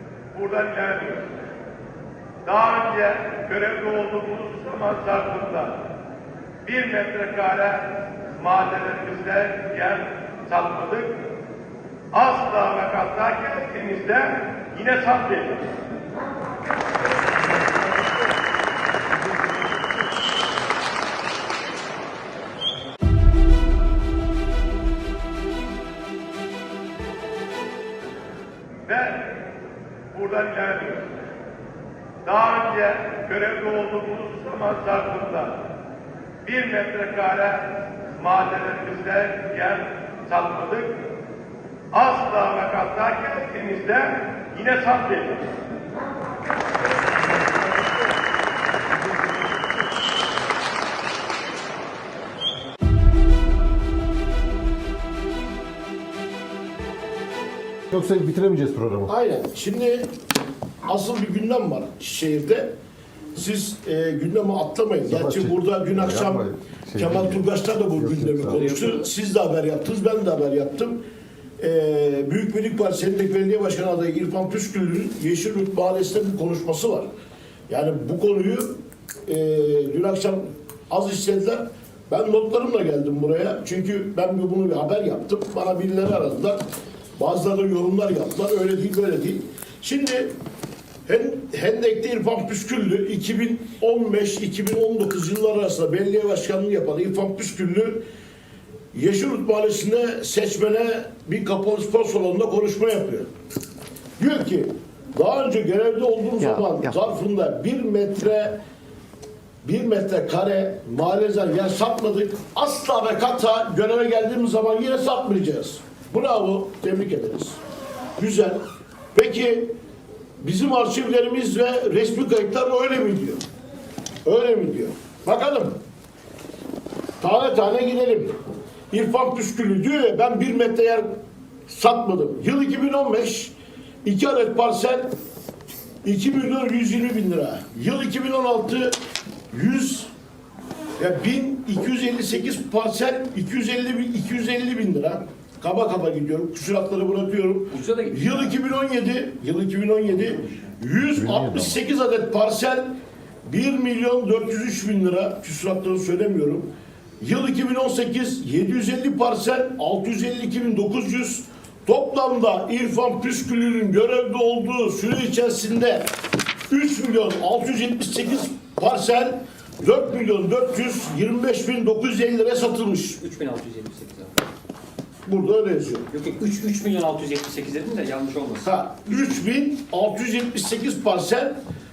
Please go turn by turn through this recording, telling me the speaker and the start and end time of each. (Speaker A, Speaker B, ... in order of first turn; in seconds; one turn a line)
Speaker A: 0.3-1.4
Speaker A: 2.5-5.8
Speaker A: 6.6-11.2
Speaker A: 12.1-15.8
Speaker A: 28.9-29.4
Speaker A: 30.1-31.3
Speaker A: 32.2-35.6
Speaker A: 36.4-41.0
Speaker A: 41.9-45.6
Speaker B: 57.9-59.1
Speaker C: 59.1-60.1
Speaker C: 60.9-62.7
Speaker C: 63.3-71.0
Speaker B: 65.1-67.4
Speaker B: 68.0-68.6
Speaker C: 71.6-77.1
Speaker C: 77.7-86.6
Speaker C: 87.2-90.3
Speaker C: 91.1-98.0
Speaker C: 98.9-103.3
Speaker C: 104.2-108.6
Speaker C: 109.6-117.6
Speaker C: 118.2-118.6
Speaker C: 119.1-119.8
Speaker C: 120.4-123.4
Speaker C: 124.2-125.8
Speaker C: 127.2-128.3
Speaker C: 128.9-131.1
Speaker C: 131.7-133.5
Speaker C: 134.0-135.1
Speaker C: 136.0-138.9
Speaker C: 139.5-140.1
Speaker C: 141.0-152.9
Speaker D: 147.7-148.5
Speaker B: 151.2-151.8
Speaker C: 153.5-156.7
Speaker C: 157.2-166.1
Speaker C: 166.7-173.2
Speaker D: 173.2-174.4
Speaker C: 175.2-176.1
Speaker D: 176.1-178.7
Speaker C: 178.6-181.6